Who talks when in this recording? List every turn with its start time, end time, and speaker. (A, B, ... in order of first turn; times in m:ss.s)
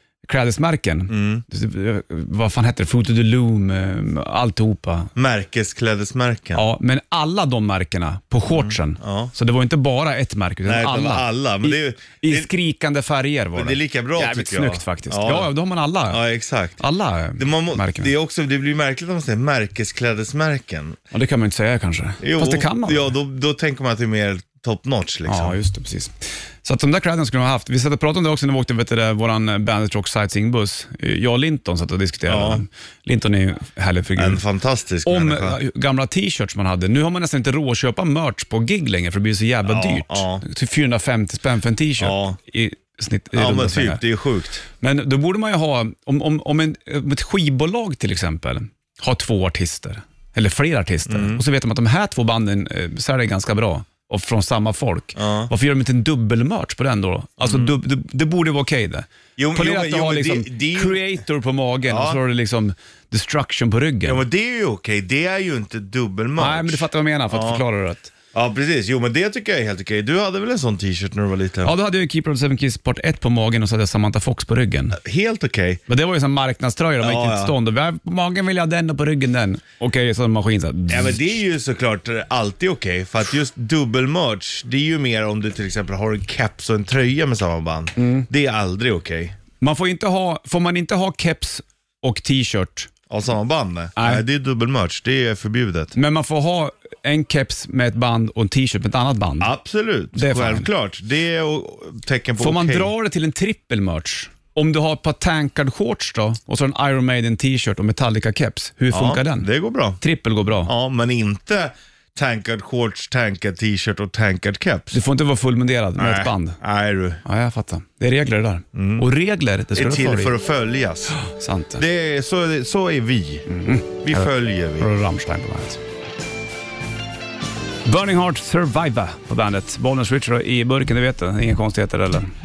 0:00.2-0:05.1 A
0:01.1-0:01.4 B
0:05.2-0:06.6 B
0:06.5-0:16.2 A
0:08.5-0:09.3 B
0:10.6-0:12.5 B
0:13.5-0:15.5 B
0:16.1-0:16.8 B
0:16.8-0:18.1 A
0:17.4-0:21.0 B
0:21.1-0:23.1 A
0:22.2-0:25.6 B
0:25.3-0:34.4 A
0:32.3-0:32.6 B
0:34.2-0:35.6 B
0:35.0-0:44.0 A
0:39.6-0:40.4 B
0:42.0-0:42.4 B
0:43.3-0:44.6 B
0:44.8-1:04.2 A
0:51.1-0:51.4 B
0:55.2-0:55.5 B
0:57.4-0:57.7 B
0:59.4-1:01.1 B
1:01.9-1:02.2 B
1:04.0-1:07.6 B
1:06.4-1:08.1 A
1:08.3-1:11.7 B
1:11.6-1:15.0 A
1:14.9-1:15.8 B
1:15.9-1:21.3 A
1:17.0-1:17.5 B
1:20.9-1:29.4 B
1:28.0-1:28.3 A
1:29.6-1:32.9 A
1:33.1-1:35.9 B
1:34.0-1:34.2 A
1:35.9-1:39.5 A
1:39.4-1:42.9 B
1:40.1-1:40.7 A
1:42.4-1:49.5 A
1:48.9-1:50.0 B
1:50.0-1:50.7 A
1:50.6-1:55.0 B
1:54.9-1:56.6 A
1:56.0-1:57.2 B
1:57.2-2:00.3 A
1:58.7-1:59.0 B
1:59.7-2:01.2 B
2:01.2-2:01.8 A
2:01.8-2:03.5 B
2:03.5-2:05.8 A
2:04.0-2:04.9 B
2:07.8-2:12.3 A